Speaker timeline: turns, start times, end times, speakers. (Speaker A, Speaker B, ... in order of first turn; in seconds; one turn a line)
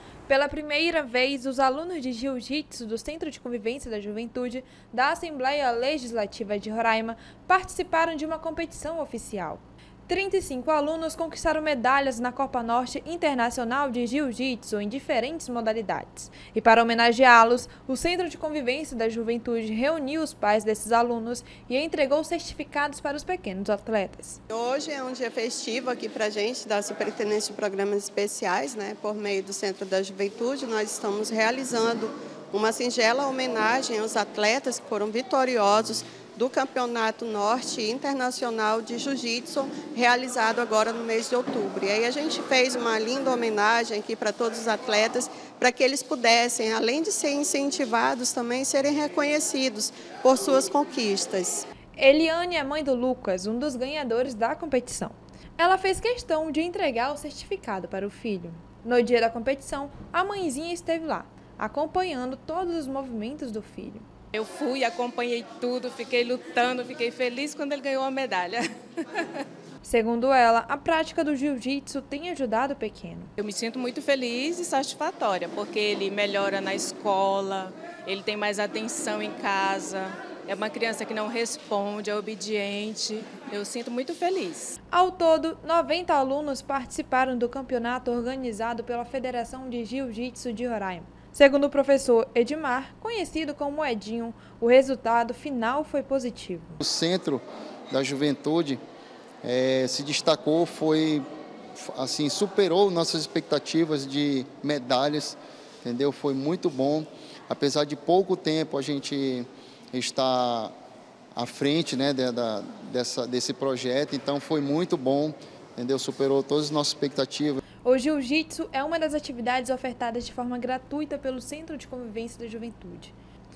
Speaker A: 0.3-24.4
Speaker B: 24.5-51.6
Speaker A: 52.0-64.0
Speaker C: 64.3-69.2
Speaker A: 69.8-73.3
Speaker C: 73.4-84.8
Speaker A: 84.9-96.8
Speaker D: 96.8-98.8
Speaker D: 99.4-101.2
Speaker D: 101.8-110.7
Speaker D: 111.3-117.6
Speaker A: 117.8-123.1